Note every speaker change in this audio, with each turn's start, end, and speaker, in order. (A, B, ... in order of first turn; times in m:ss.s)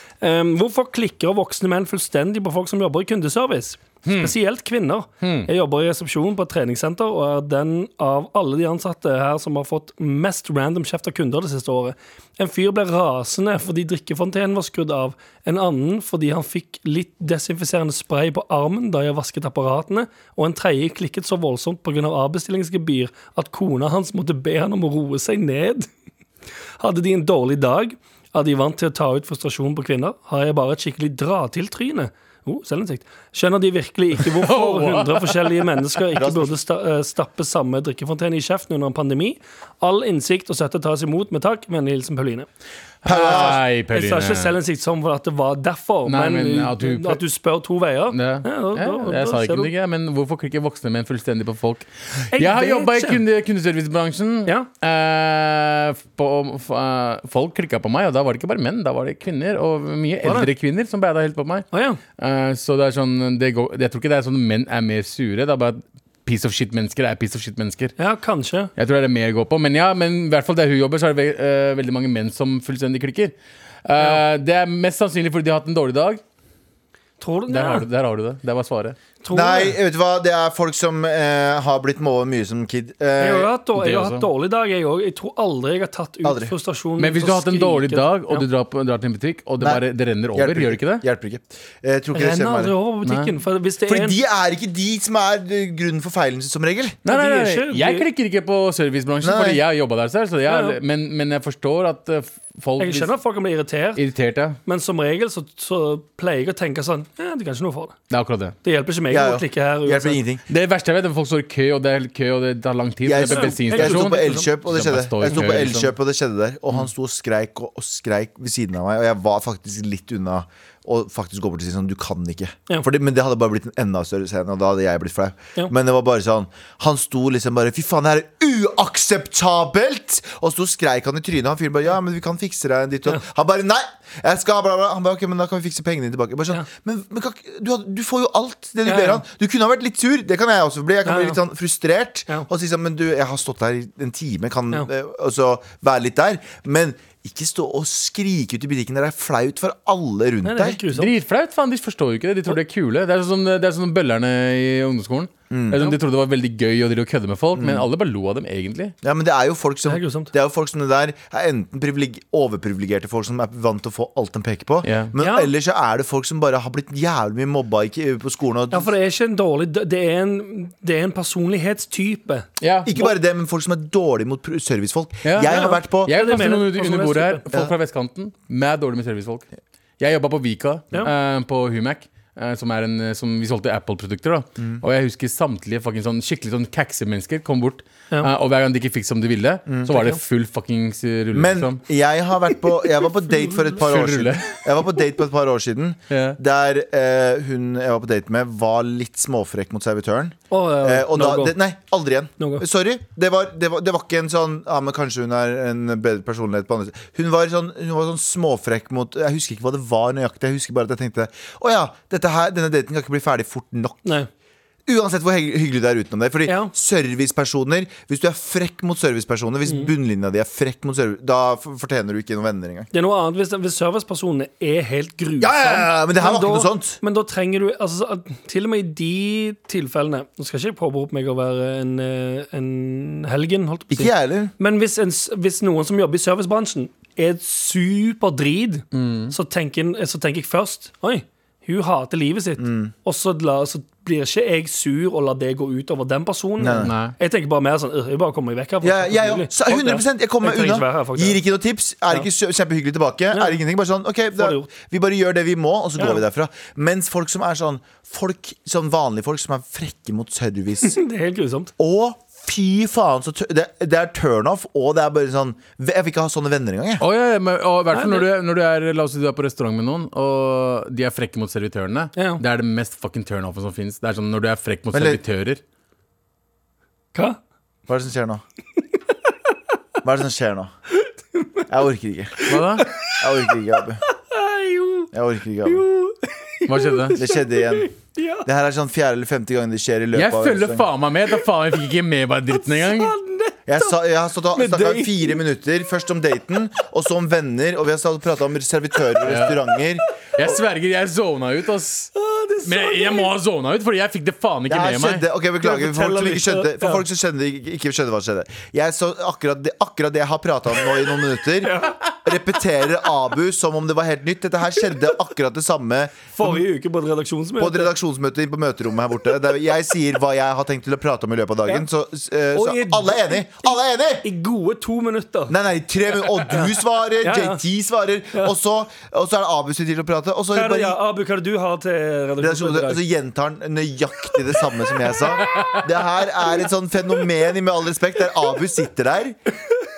0:00.2-0:25.9 A
0:04.0-0:04.3 B
0:05.2-0:05.5 B
0:26.8-0:42.5 A
0:34.2-0:36.0 B
0:36.2-0:36.5 C
0:43.0-0:43.6 C
0:43.0-0:44.5 B
0:43.1-0:49.7 A
0:46.0-0:47.2 B
0:48.1-1:07.9 B
0:52.3-0:53.2 A
1:00.2-1:00.5 A
1:01.7-1:02.0 A
1:08.0-1:08.7 A
1:08.8-1:16.2 B
1:14.0-1:14.2 A
1:17.2-1:17.8 A
1:17.5-1:19.0 B
1:19.2-1:19.8 A
1:19.3-1:23.5 C
1:23.2-1:28.4 A
1:23.8-1:24.3 B
1:26.2-1:26.5 C
1:27.0-1:31.0 B
1:30.3-1:32.7 C
1:32.1-1:34.2 A
1:33.0-1:33.3 B
1:33.8-1:37.0 C
1:37.0-1:43.1 B
1:37.0-1:38.1 A
1:39.2-1:39.6 C
1:40.5-1:40.8 A
1:42.8-1:44.0 A
1:44.0-1:44.6 B
1:44.6-1:48.0 A
1:48.1-1:48.6 B
1:48.6-1:50.2 A
1:49.1-1:50.4 C
1:50.5-1:55.9 B
1:53.0-2:30.8 C
1:53.3-1:54.5 A
1:55.3-1:55.6 A
2:18.8-2:19.2 A
2:21.0-2:21.4 A
2:30.4-2:31.1 A
2:30.9-2:38.9 B
2:35.5-2:35.8 C
2:37.6-2:37.9 C
2:39.0-2:48.9 C
2:39.8-2:40.3 A
2:44.8-2:45.1 B
2:45.2-2:45.5 A
2:48.7-2:52.5 A
2:52.6-2:52.9 B
2:52.8-2:56.1 C
2:55.2-2:59.5 B
2:55.5-2:57.4 A
3:00.0-3:11.8 B
3:09.9-3:10.2 A
3:11.3-3:34.1 C
3:13.8-3:14.5 B
3:16.1-3:16.4 B
3:20.5-3:21.6 A
3:22.4-3:22.6 A
3:34.8-3:42.9 C
3:36.4-3:36.7 A
3:39.6-3:39.9 A
3:42.9-4:11.4 A
3:45.4-3:47.0 C
3:53.9-3:54.5 C
3:58.9-3:59.3 B
4:02.6-4:02.9 C
4:06.6-4:06.9 C
4:06.8-4:07.1 B
4:08.8-4:21.0 C
4:13.3-4:13.6 A
4:14.3-4:14.7 A
4:16.0-4:16.2 A
4:20.8-4:21.7 A
4:21.8-4:27.0 C
4:27.0-4:35.6 B
4:27.9-4:28.3 A
4:32.2-4:32.4 A
4:34.9-4:35.2 C
4:37.9-4:38.4 C
4:40.0-4:40.7 C
4:41.0-4:41.7 A
4:41.7-4:42.6 C
4:42.4-4:42.9 B
4:42.5-4:45.1 A
4:43.2-4:44.0 C
4:45.1-4:45.8 C
4:45.6-4:48.5 A
4:46.7-4:47.2 B
4:47.2-4:47.9 C
4:48.4-4:50.8 C
4:50.1-4:53.1 B
4:52.5-4:54.0 A
4:53.7-5:00.0 C
4:54.5-4:55.4 A
4:59.2-4:59.6 B
5:00.4-5:02.1 B
5:02.1-5:03.3 A
5:02.6-5:05.2 B
5:04.7-5:16.6 C
5:05.6-5:07.0 A
5:11.6-5:12.1 A
5:16.3-5:17.9 A
5:17.6-5:24.2 C
5:22.5-5:25.6 A
5:25.5-5:31.0 C
5:26.4-5:27.6 A
5:30.5-5:33.0 A
5:32.4-5:39.4 C
5:35.4-5:35.8 B